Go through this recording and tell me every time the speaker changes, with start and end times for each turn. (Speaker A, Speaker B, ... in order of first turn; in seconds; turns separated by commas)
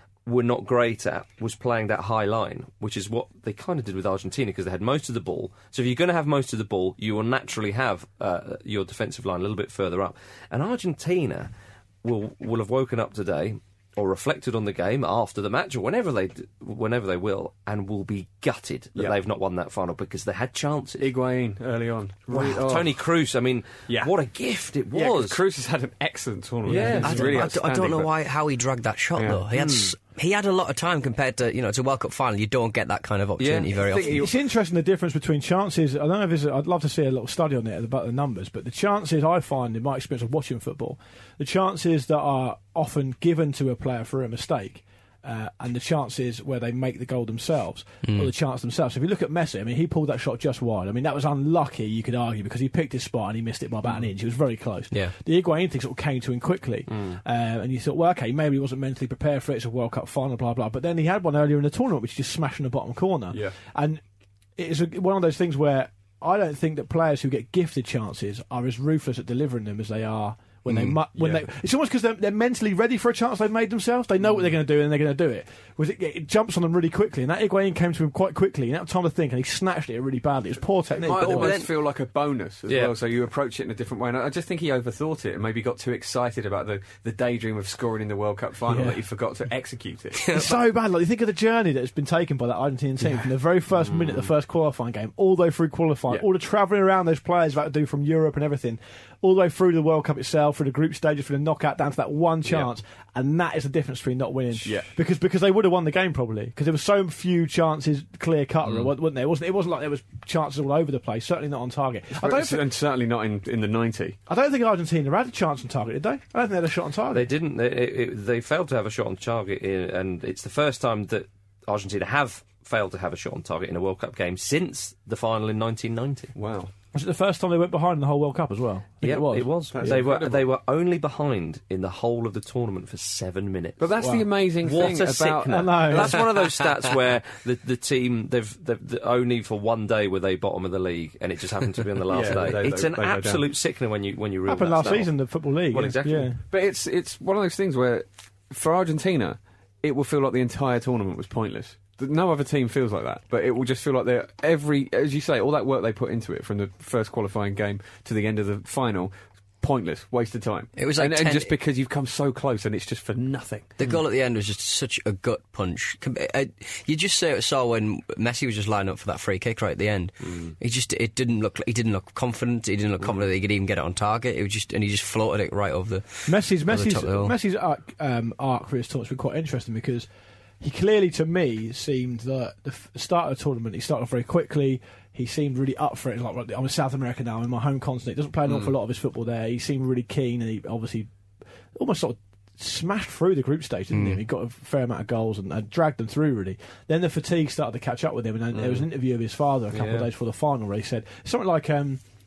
Speaker A: 0.3-11.5, Speaker A: 12.0-21.1, Speaker B: 21.0-22.9, Speaker A: 22.3-25.4, Speaker B: 24.9-28.1, Speaker A: 26.7-27.4, Speaker C: 26.7-27.3, Speaker D: 27.0-34.2, Speaker B: 29.2-29.4, Speaker A: 29.5-29.9, Speaker A: 33.4-33.7, Speaker B: 33.8-34.3, Speaker C: 34.1-64.0, Speaker D: 48.0-48.3, Speaker C: 64.6-81.6, Speaker B: 70.7-71.5, Speaker B: 81.0-90.3, Speaker D: 81.2-81.7, Speaker A: 82.7-83.0, Speaker C: 88.7-89.0, Speaker D: 90.2-90.6, Speaker C: 90.3-112.7, Speaker B: 93.0-93.3, Speaker A: 93.9-94.3, Speaker B: 104.7-104.9, Speaker B: 112.2-114.2, Speaker C: 114.3-117.3, Speaker A: 117.1-126.3, Speaker B: 126.3-126.7, Speaker C: 126.9-130.0, Speaker A: 129.0-133.9, Speaker B: 129.7-130.5, Speaker B: 133.8-136.3, Speaker C: 134.0-134.3, Speaker A: 134.6-146.3, Speaker C: 135.5-136.2, Speaker B: 142.1-143.4, Speaker C: 144.5-146.4, Speaker B: 146.4-164.0, Speaker D: 160.8-161.6, Speaker D: 163.8-177.3, Speaker A: 170.3-170.5, Speaker C: 176.3-180.1, Speaker C: 180.6-191.1, Speaker C: 191.8-202.0, Speaker D: 193.9-194.2, Speaker B: 198.5-198.9, Speaker A: 199.7-200.1